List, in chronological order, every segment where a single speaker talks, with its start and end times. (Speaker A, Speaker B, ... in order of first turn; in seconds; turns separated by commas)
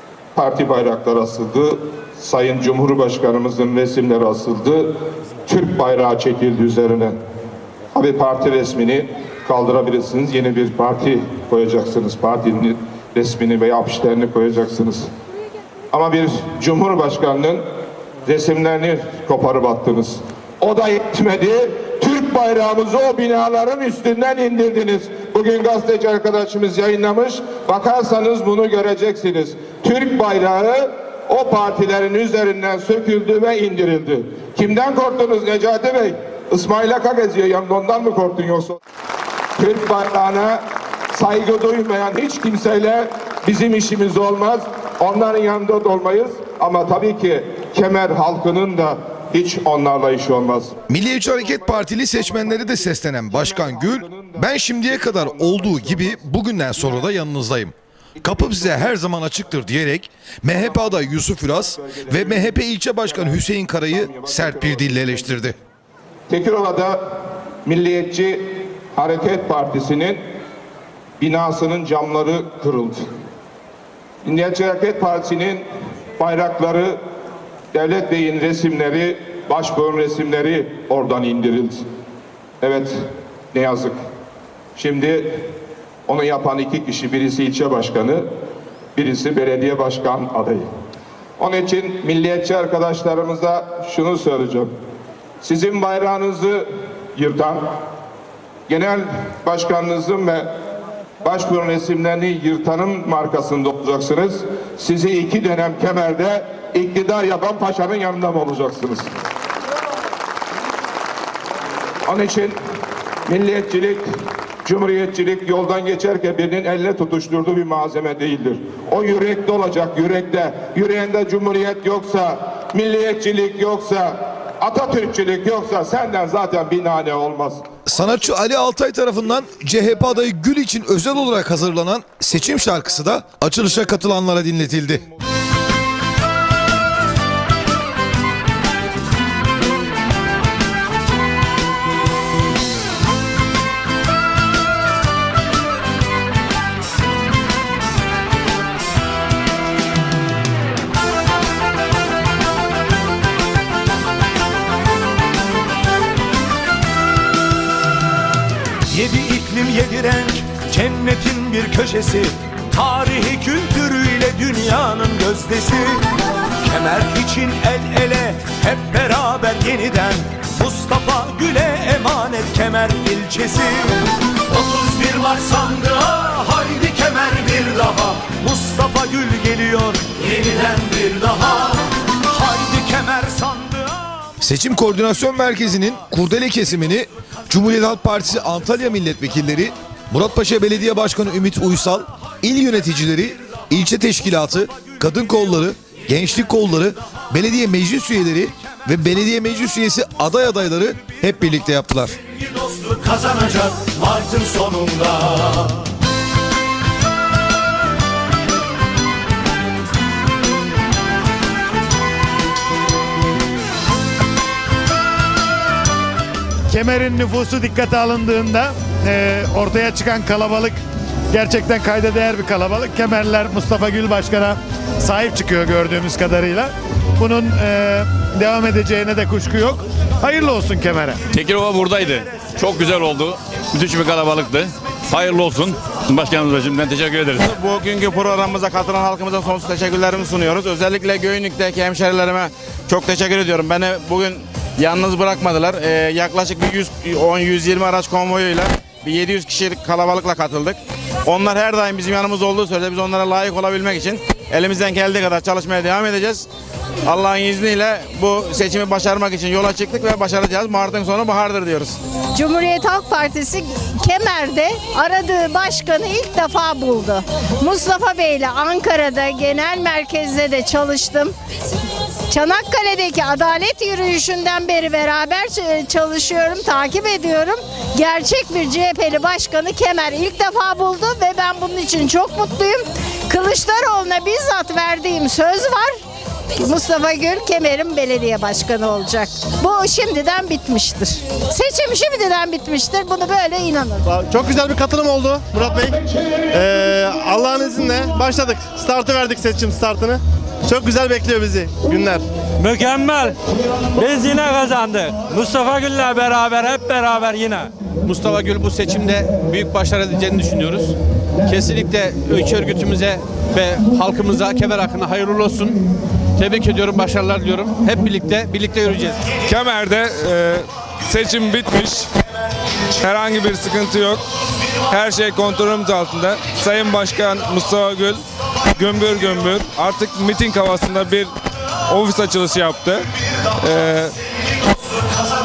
Speaker A: 0.3-4.9, Speaker A: 5.5-7.2, Speaker A: 7.9-15.1, Speaker A: 15.9-17.6, Speaker A: 18.2-38.8, Speaker A: 39.6-40.6, Speaker A: 41.1-50.8, Speaker B: 50.9-65.6, Speaker A: 51.4-57.1, Speaker A: 58.2-58.9, Speaker A: 60.6-61.0, Speaker A: 61.6-65.3, Speaker A: 66.3-67.0, Speaker A: 67.7-70.2, Speaker A: 71.2-73.0, Speaker A: 74.2-75.7, Speaker A: 76.2-77.0, Speaker A: 77.7-81.8, Speaker A: 82.6-83.0, Speaker A: 83.5-84.0, Speaker A: 84.8-85.4, Speaker A: 86.1-88.3, Speaker A: 89.0-90.7, Speaker A: 91.4-94.7, Speaker A: 95.4-97.6, Speaker A: 98.7-100.5, Speaker A: 101.2-109.1, Speaker A: 112.1-112.6, Speaker A: 113.3-114.0, Speaker A: 114.7-127.7, Speaker B: 127.9-135.1, Speaker C: 158.9-166.1, Speaker C: 166.6-184.3, Speaker B: 184.4-202.2, Speaker C: 202.6-205.7, Speaker D: 216.7-220.8, Speaker D: 221.3-231.2, Speaker E: 231.3-237.5, Speaker F: 237.5-256.5, Speaker F: 257.1-262.0, Speaker G: 262.3-271.3, Speaker G: 272.3-286.0, Speaker G: 286.6-294.1, Speaker H: 294.1-296.0, Speaker H: 296.5-302.2, Speaker I: 302.6-303.4, Speaker I: 304.0-307.7, Speaker J: 308.0-310.9, Speaker J: 311.5-315.8, Speaker J: 316.4-319.2, Speaker K: 319.5-322.1, Speaker K: 323.0-324.2, Speaker K: 324.9-328.2, Speaker K: 328.8-331.3, Speaker K: 331.9-334.1